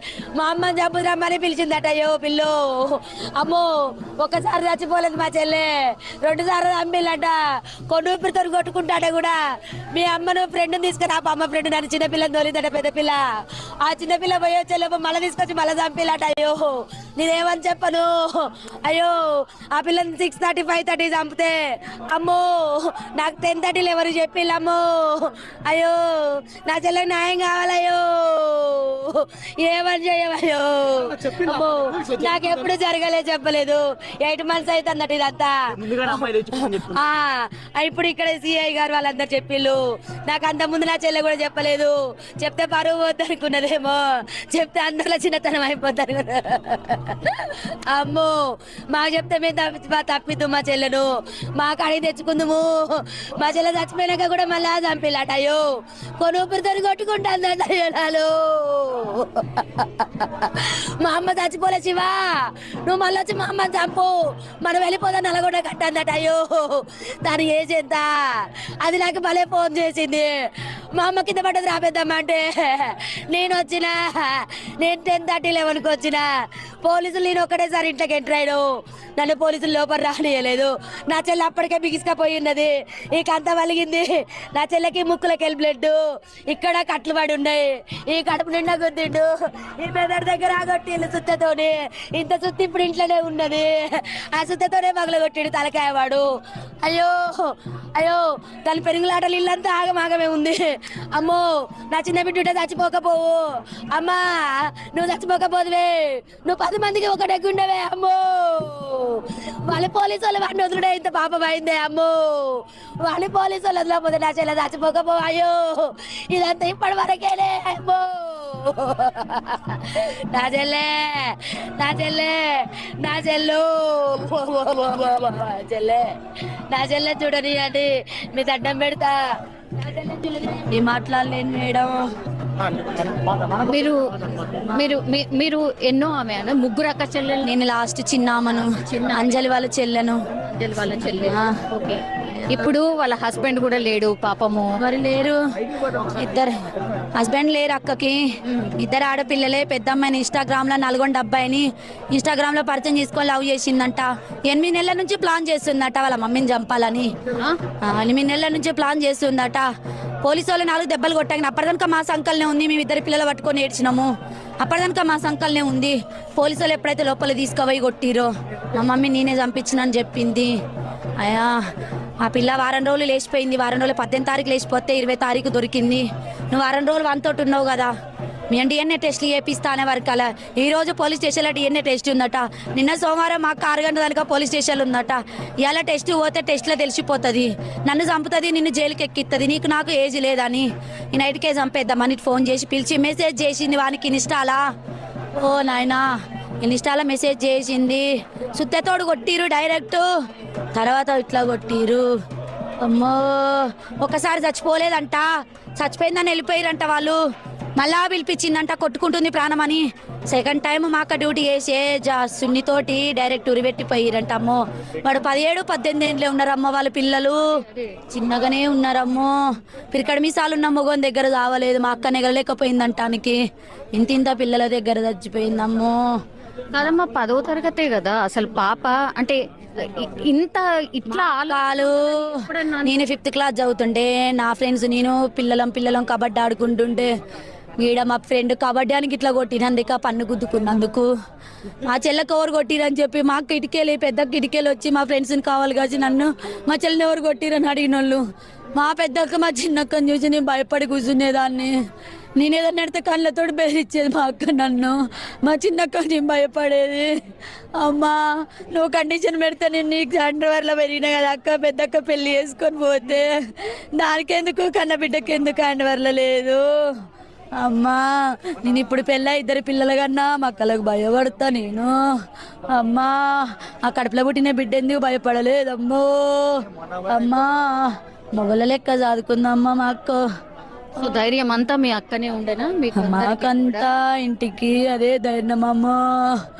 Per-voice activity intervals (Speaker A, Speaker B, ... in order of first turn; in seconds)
Speaker A: 0.3-3.7, 4.2-7.3, 7.9-9.4, 9.9-13.2, 13.8-55.6, 56.2-62.2, 62.8-68.1, 68.8-70.3, 70.9-76.2, 76.8-78.6, 79.2-96.2, 96.8-100.6, 101.1-103.4, 103.9-126.1, 126.7-129.1, 129.8-131.8
Speaker B: 133.4-134.0, 134.7-137.5, 138.9-139.3, 140.5-144.8, 226.7-233.0, 281.0-283.9
Speaker C: 137.7-138.7, 139.3-140.2, 144.9-145.4, 146.1-146.5, 147.2-148.2, 148.8-157.1, 157.8-159.7, 160.2-170.5, 171.2-171.6, 172.2-177.9, 178.5-194.6, 195.3-196.0, 196.6-200.0, 200.7-202.1, 202.8-207.2, 207.8-217.4, 218.1-219.4, 219.9-223.4, 223.9-226.0, 231.5-232.3, 232.9-237.1, 237.8-241.1, 241.8-251.8, 252.3-257.1, 257.8-263.3, 263.9-266.6, 267.6-271.9, 272.7-280.2, 283.1-286.0